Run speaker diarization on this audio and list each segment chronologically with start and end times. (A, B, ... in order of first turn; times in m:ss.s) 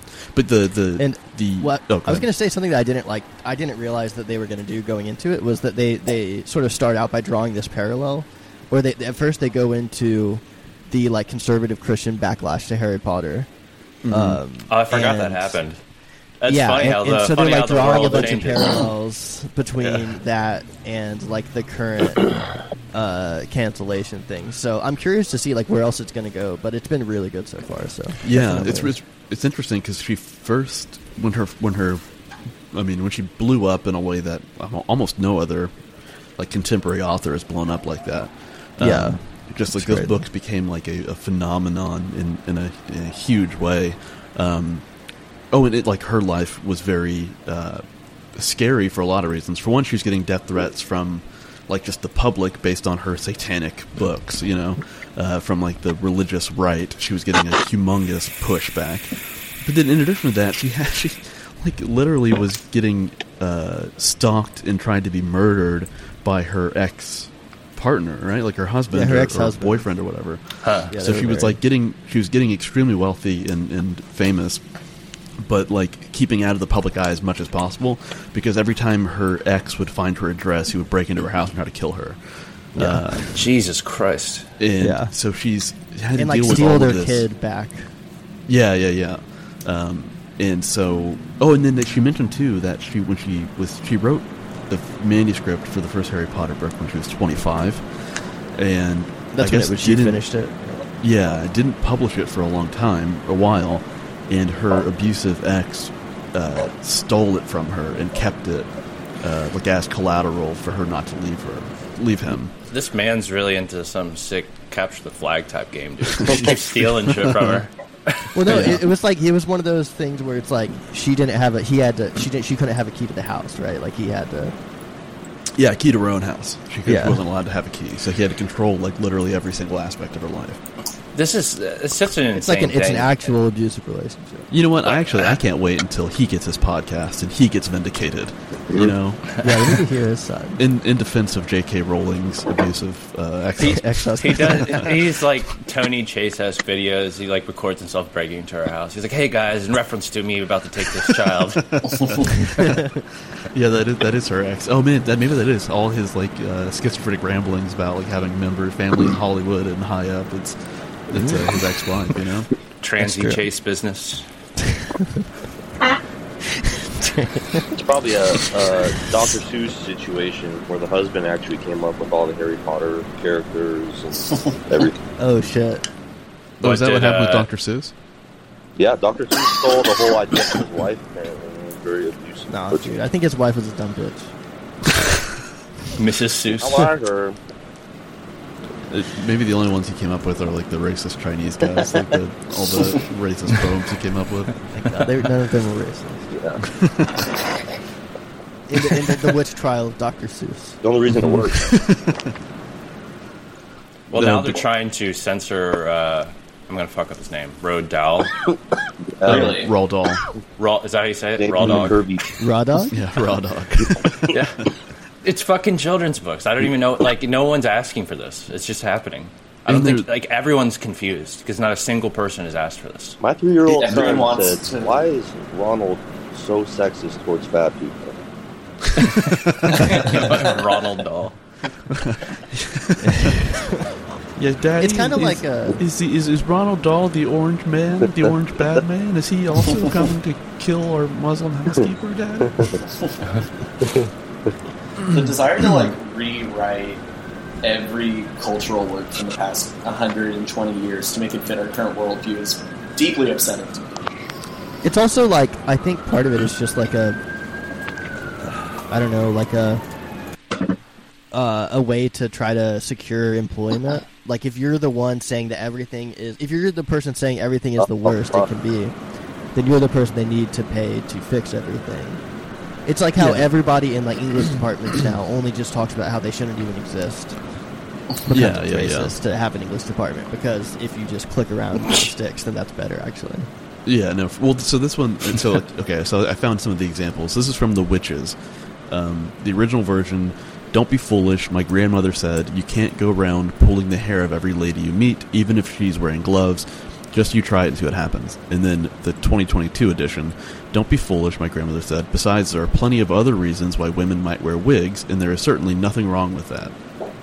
0:00.3-0:02.3 A
0:01.0-0:13.5 B
0:14.0-0:14.4 A
0:14.1-0:15.6 B
0:14.7-0:15.8 C
0:16.4-0:18.8 C
0:16.4-0:22.3 B
0:22.9-0:28.9 B
0:28.2-0:32.1 A
0:32.7-0:35.7 A
0:36.4-0:44.8 A
0:38.8-0:40.2 B
0:45.5-0:47.8 A
0:48.4-1:14.6 A
1:08.9-1:09.9 B
1:10.6-1:10.9 C
1:10.9-1:11.6 B
1:15.4-1:22.2 A
1:22.7-1:23.3 A
1:22.8-1:23.2 B
1:23.3-1:24.5 C
1:24.6-1:27.2 A
1:24.8-1:25.1 B
1:26.1-1:27.9 B
1:28.5-1:37.9 A
1:38.6-1:40.2 A
1:39.3-1:40.8 B
1:41.0-1:48.7 A
1:49.2-1:52.5 A
1:52.7-1:58.7 C
1:56.2-1:57.7 A
1:58.3-2:04.5 B
1:58.4-1:58.8 A
2:05.6-2:10.6 A
2:06.8-2:07.2 B
2:11.1-2:13.3 C
2:12.3-2:14.5 B
2:14.5-2:19.3 A
2:19.4-2:20.6 B
2:20.6-2:24.9 A
2:23.6-2:24.9 B
2:23.6-2:31.6 C
2:31.7-2:42.5 A
2:41.1-2:41.4 B
2:42.8-2:44.2 C
2:43.0-2:43.4 B
2:44.7-2:45.2 B
2:46.5-2:47.7 B
2:47.7-2:55.0 D
2:55.2-2:55.8 B
2:56.6-2:57.9 A
2:56.6-2:57.5 C
2:58.8-3:02.9 D
3:02.5-3:04.3 B
3:05.9-3:06.9 C
3:06.5-3:07.4 D
3:08.9-3:14.6 A
3:14.7-3:16.3 B
3:16.3-3:16.6 D
3:16.6-3:17.2 A
3:18.7-3:20.8 B
3:20.8-3:21.8 D
3:21.2-3:22.2 A
3:24.1-3:28.3 C
3:24.1-3:24.6 A
3:29.2-3:29.5 D
3:29.2-3:30.2 A
3:29.3-3:29.7 E
3:30.6-3:32.0 C
3:31.4-3:32.2 D
3:32.4-3:33.0 B
3:32.9-3:34.4 A
3:34.3-3:34.6 C
3:35.2-3:43.2 C
3:39.6-3:40.1 A
3:43.2-3:48.2 D
3:43.6-3:45.0 E
3:49.0-3:50.1 A
3:49.0-3:51.4 C
3:51.9-3:53.4 A
3:53.0-3:53.9 B
3:54.4-4:02.9 A
3:54.8-3:55.8 B
4:05.0-4:05.3 A
4:05.1-4:07.0 E
4:07.6-4:14.0 E
4:14.8-4:17.2 B
4:18.9-4:19.8 B
4:21.3-4:28.9 B
4:27.8-4:28.5 D
4:29.5-4:32.2 B
4:32.8-4:37.4 B
4:33.2-4:33.4 A
4:38.2-4:43.5 B
4:38.3-4:39.1 A
4:43.8-4:48.4 A
4:48.9-5:06.7 A